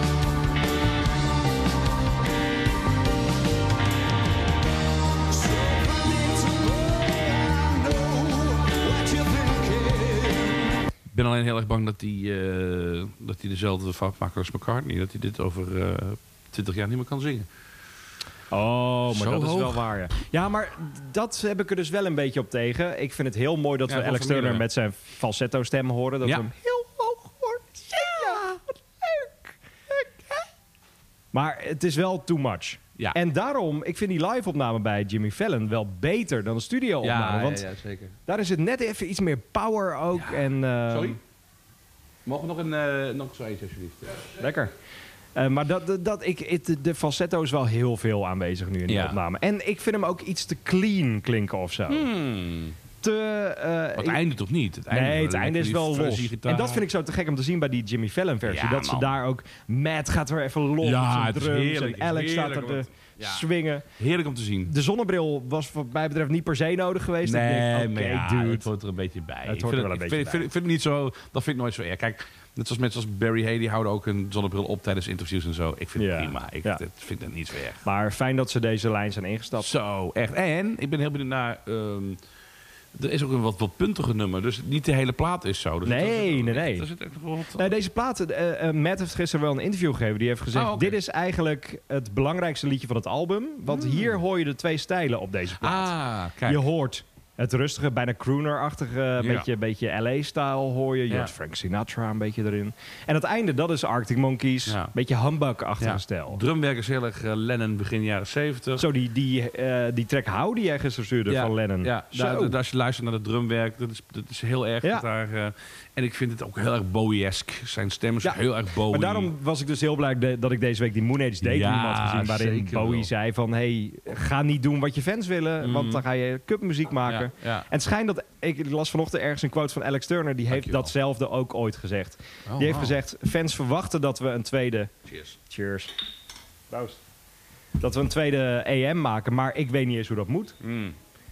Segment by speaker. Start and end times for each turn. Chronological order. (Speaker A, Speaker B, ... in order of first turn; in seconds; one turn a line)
Speaker A: 5.3-10.6
Speaker A: 11.1-17.5
Speaker B: 18.5-30.4
Speaker A: 19.1-19.8
Speaker A: 23.9-24.6
Speaker B: 31.3-37.6
Speaker A: 37.0-38.1
Speaker B: 38.2-41.2
Speaker A: 40.1-41.2
Speaker A: 42.2-44.4
Speaker B: 44.4-44.7
Speaker B: 45.3-52.1
Speaker A: 48.9-49.2
Speaker A: 51.9-52.8
Speaker B: 53.0-54.2
Speaker A: 54.0-56.9
Speaker B: 54.9-63.9
Speaker A: 58.5-59.1
Speaker A: 60.8-64.7
Speaker B: 64.7-68.7
Speaker A: 67.2-77.8
Speaker B: 69.5-70.5
Speaker B: 76.0-76.8
Speaker B: 77.8-79.7
Speaker A: 79.6-82.2
Speaker A: 83.0-87.7
Speaker B: 85.8-86.9
Speaker B: 87.5-95.9
Speaker A: 90.5-91.0
Speaker A: 93.7-94.2
Speaker A: 95.6-96.6
Speaker B: 96.5-106.4
Speaker A: 99.2-99.5
Speaker A: 104.7-104.9
Speaker A: 105.8-108.8
Speaker B: 108.8-112.6
Speaker A: 111.3-119.3
Speaker B: 118.2-134.9
Speaker A: 121.4-123.1
Speaker A: 125.6-126.0
Speaker A: 127.0-127.7
Speaker A: 130.5-130.9
Speaker A: 132.4-132.9
Speaker A: 135.1-135.4
Speaker B: 135.4-135.9
Speaker B: 136.7-137.0
Speaker B: 137.8-140.6
Speaker A: 140.6-141.0